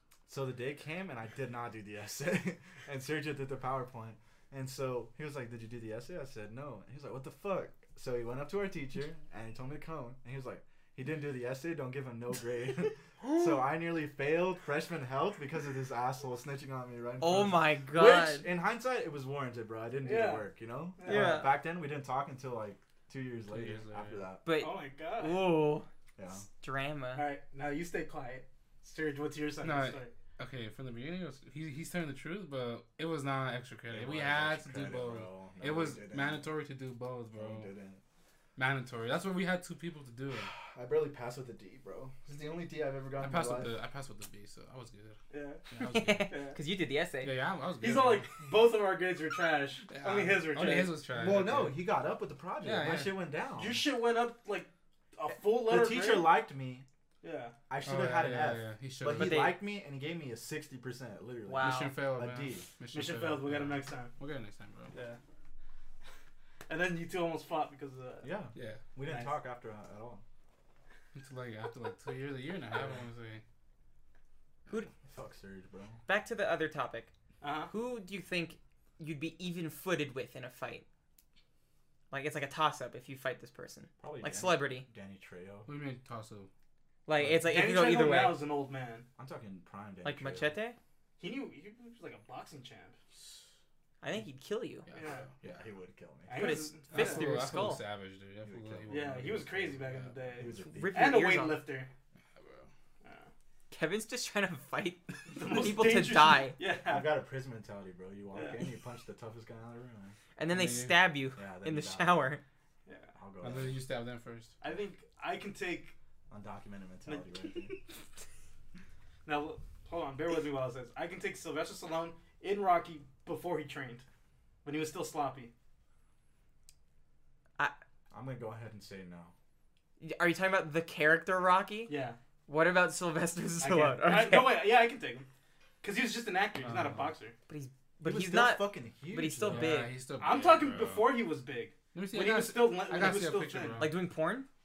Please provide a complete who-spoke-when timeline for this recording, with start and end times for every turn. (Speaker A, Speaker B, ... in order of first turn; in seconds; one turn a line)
Speaker A: 0.3-24.4
Speaker B: 17.2-18.5
Speaker C: 20.0-21.5
Speaker B: 21.0-21.5
Speaker D: 23.4-24.3
Speaker B: 24.4-25.9
Speaker C: 24.6-25.5
Speaker A: 26.2-26.4
Speaker B: 26.6-27.3
Speaker C: 27.1-30.1
Speaker D: 29.6-37.7
Speaker A: 33.9-36.5
Speaker A: 37.4-38.0
Speaker D: 38.6-40.5
Speaker A: 40.5-43.7
Speaker D: 43.2-45.2
Speaker C: 45.3-45.6
Speaker D: 45.7-46.3
Speaker B: 45.8-47.3
Speaker C: 46.3-46.6
Speaker D: 47.2-48.3
Speaker C: 47.8-51.0
Speaker D: 49.9-51.9
Speaker A: 51.1-53.8
Speaker D: 52.6-53.2
Speaker C: 53.6-56.3
Speaker A: 55.3-56.9
Speaker C: 57.2-57.5
Speaker A: 57.7-62.7
Speaker D: 57.8-59.5
Speaker B: 59.1-59.6
Speaker B: 61.5-61.9
Speaker D: 61.6-64.9
Speaker C: 62.9-64.1
Speaker C: 64.9-65.2
Speaker C: 66.7-68.3
Speaker A: 68.2-70.2
Speaker D: 68.5-68.8
Speaker C: 69.0-69.3
Speaker D: 71.1-73.4
Speaker A: 75.0-76.0
Speaker B: 76.1-77.1
Speaker C: 77.4-77.7
Speaker B: 77.7-80.8
Speaker B: 82.1-84.8
Speaker A: 84.0-85.7
Speaker D: 85.7-86.5
Speaker B: 87.0-88.4
Speaker C: 87.4-89.1
Speaker A: 89.2-90.5
Speaker B: 90.0-90.8
Speaker C: 91.2-93.0
Speaker B: 94.0-94.9
Speaker D: 94.9-95.3
Speaker C: 94.9-95.3
Speaker A: 95.4-96.5
Speaker C: 96.3-97.3
Speaker B: 96.3-97.8
Speaker D: 96.9-100.5
Speaker A: 98.4-99.6
Speaker C: 98.9-101.9
Speaker A: 100.3-101.2
Speaker B: 100.6-101.7
Speaker D: 102.4-102.7
Speaker C: 103.0-103.3
Speaker B: 103.7-106.6
Speaker C: 105.3-107.1
Speaker A: 106.8-110.2
Speaker C: 108.3-108.6
Speaker B: 110.4-112.4
Speaker D: 110.5-111.0
Speaker A: 111.3-112.3
Speaker C: 112.8-113.1
Speaker A: 113.2-113.8
Speaker D: 113.4-114.5
Speaker C: 114.6-115.9
Speaker A: 116.3-117.8
Speaker C: 117.1-117.8
Speaker C: 119.2-124.0
Speaker C: 124.6-125.5
Speaker A: 128.1-129.3
Speaker B: 130.0-131.9
Speaker C: 131.9-132.2
Speaker B: 132.5-134.6
Speaker C: 133.6-135.3
Speaker C: 135.8-137.3
Speaker D: 136.6-137.1
Speaker B: 137.5-139.9
Speaker A: 138.0-139.7
Speaker D: 139.4-141.3
Speaker C: 140.2-143.9
Speaker D: 141.9-144.0
Speaker B: 143.8-144.5